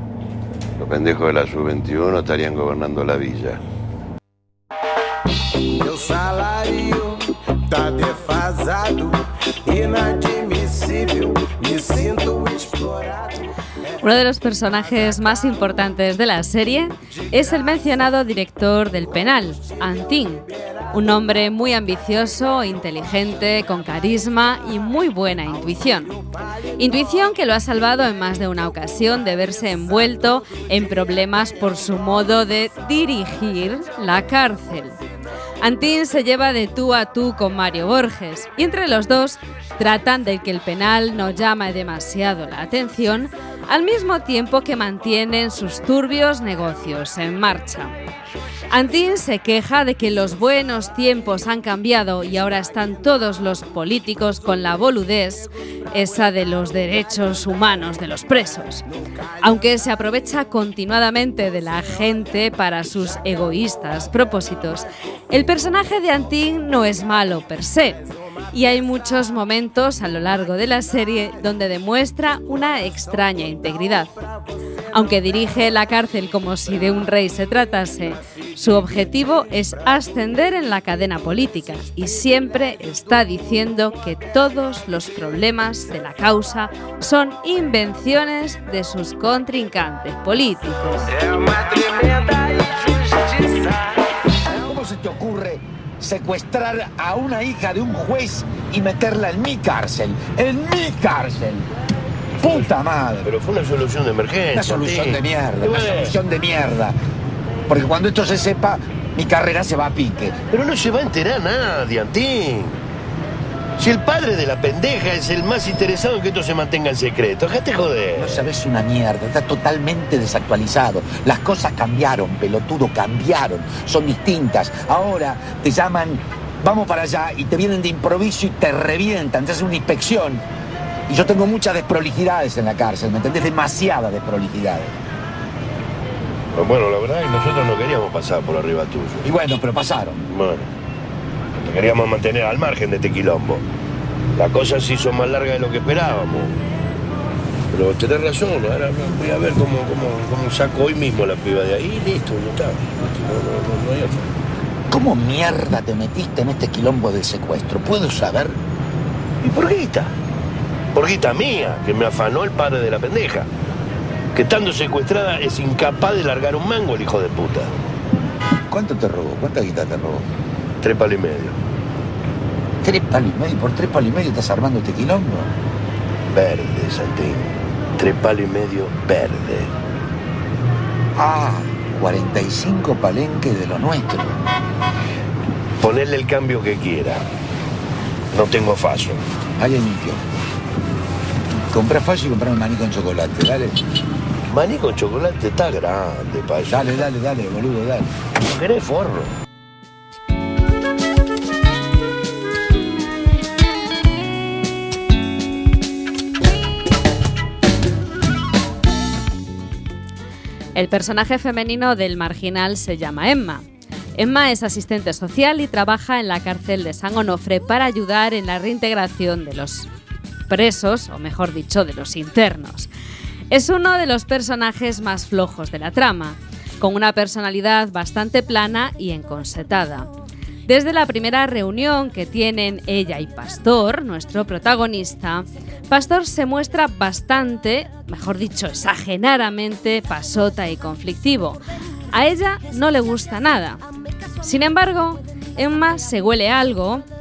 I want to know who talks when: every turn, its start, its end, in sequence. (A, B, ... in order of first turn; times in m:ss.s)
0:00.8-0:03.6 A
0:05.8-0:13.3 B
0:14.0-0:26.2 C
0:26.8-0:35.0 C
0:35.6-0:47.9 C
0:48.7-0:58.9 C
0:59.4-1:14.1 C
1:14.9-1:31.1 C
1:31.2-1:33.5 B
1:34.6-1:41.6 D
1:42.4-1:43.3 D
1:43.2-1:46.2 A
1:44.5-1:46.9 D
1:47.7-1:50.4 D
1:50.5-1:52.8 A
1:53.8-1:58.5 A
1:58.2-2:10.4 D
2:11.1-2:14.9 D
2:16.6-2:19.3 A
2:19.2-2:20.2 D
2:20.3-2:20.6 A
2:21.6-2:23.6 A
2:24.3-2:26.6 A
2:27.7-2:34.2 A
2:34.9-2:38.6 D
2:39.4-2:40.1 A
2:40.9-2:43.5 A
2:44.3-2:47.7 A
2:48.7-2:50.2 D
2:50.8-2:51.6 A
2:52.8-2:55.5 D
2:56.3-2:59.7 A
3:01.2-3:04.4 D
3:05.8-3:07.2 A
3:08.3-3:09.2 A
3:09.6-3:10.2 D
3:11.7-3:13.8 D
3:14.5-3:17.1 A
3:16.6-3:18.1 D
3:18.4-3:19.3 A
3:30.7-3:33.6 C
3:34.2-3:39.9 C
3:40.5-3:42.9 C
3:43.5-3:50.1 C
3:50.6-4:01.6 C
4:02.1-4:03.8 C
4:04.4-4:07.0 C